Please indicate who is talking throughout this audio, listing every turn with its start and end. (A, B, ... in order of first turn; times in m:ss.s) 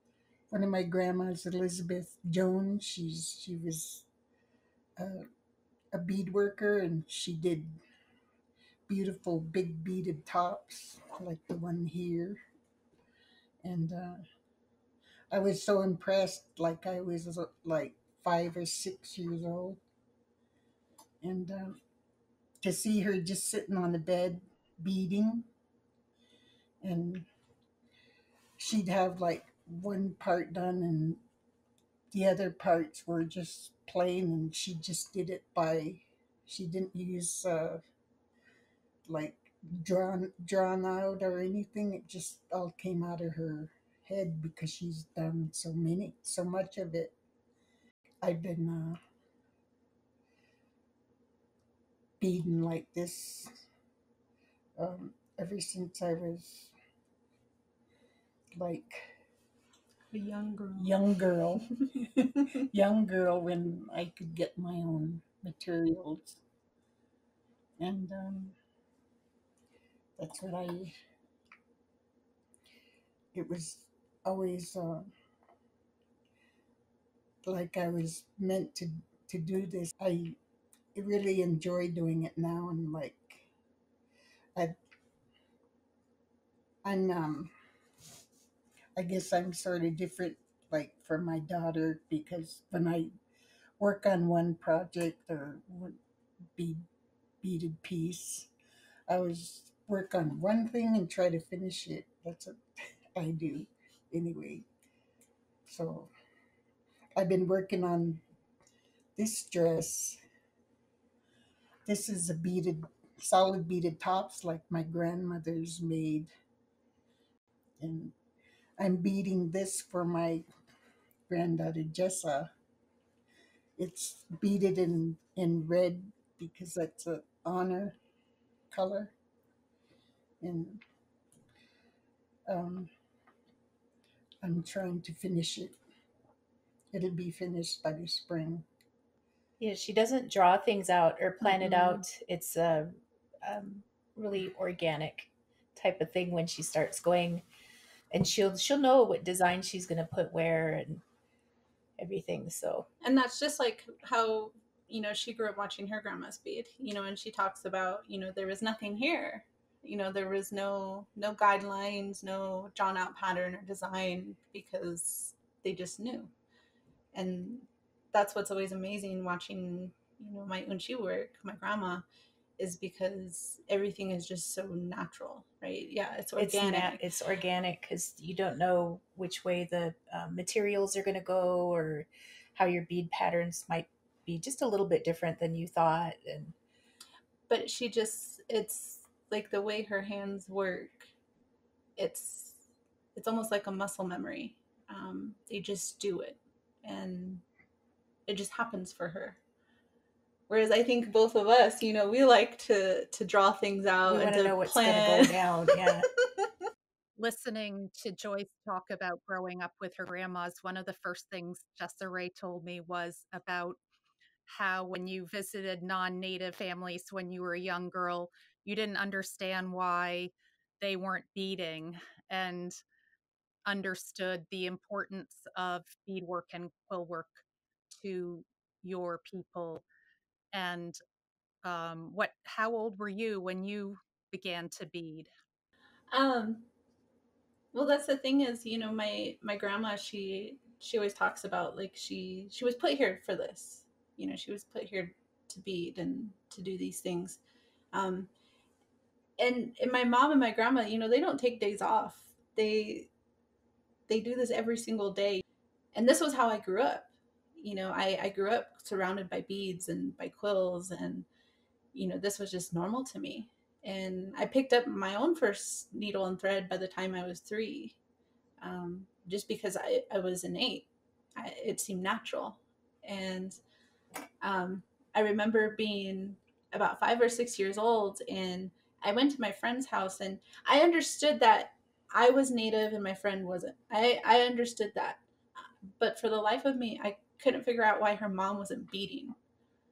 0:00.5-0:04.1 A
0:05.0-0:05.2 A
0:05.9-0:07.8 A
0:08.9-0:12.4 A
0:13.6-0:14.2 A
0:15.3-0:19.8 A
0:21.2-0:21.8 A
0:22.6-0:25.5 A
0:26.8-0:27.3 A
0:28.6-0:31.2 A
0:32.1-0:37.8 A
0:39.0-0:47.1 A
0:48.2-0:49.0 A
0:52.2-0:53.5 A
0:54.8-0:56.7 A
0:58.5-0:59.1 A
1:00.1-1:00.9 B
1:00.7-1:06.4 A
1:07.8-1:08.5 A
1:10.2-1:10.9 A
1:13.3-1:15.1 A
1:17.4-1:20.4 A
1:20.9-1:23.5 A
1:26.8-1:27.5 A
1:29.0-1:33.1 A
1:33.8-1:36.0 A
1:36.6-1:36.8 A
1:37.4-1:38.5 A
1:39.1-1:44.7 A
1:45.6-1:46.1 A
1:47.2-1:48.2 A
1:49.2-1:50.2 A
1:51.8-1:56.3 A
1:57.8-1:58.1 A
1:58.8-2:00.4 A
2:01.3-2:02.5 A
2:03.8-2:08.0 A
2:08.7-2:09.1 A
2:10.4-2:10.8 A
2:12.5-2:12.9 A
2:14.4-2:15.8 A
2:16.9-2:18.6 A
2:19.6-2:27.4 C
2:21.4-2:22.0 A
2:28.1-2:31.0 C
2:32.0-2:32.9 C
2:33.0-2:46.3 B
2:47.1-2:52.0 B
2:52.6-2:57.0 B
2:56.4-3:06.5 C
3:07.5-3:11.1 B
3:12.0-3:12.6 B
3:13.1-3:17.4 B
3:18.3-3:19.4 B
3:20.5-3:26.5 B
3:24.1-3:26.1 C
3:27.2-3:33.8 D
3:34.5-3:42.8 D
3:43.6-3:47.4 D
3:48.0-3:49.8 D
3:50.5-3:51.0 D
3:51.6-3:55.3 D
3:56.1-3:56.7 B
3:57.7-4:07.4 B
4:07.9-4:08.3 B
4:09.4-4:13.1 B
4:14.1-4:21.3 B
4:21.9-4:28.0 B
4:28.6-4:33.6 B
4:34.4-4:45.2 B
4:46.0-4:49.3 B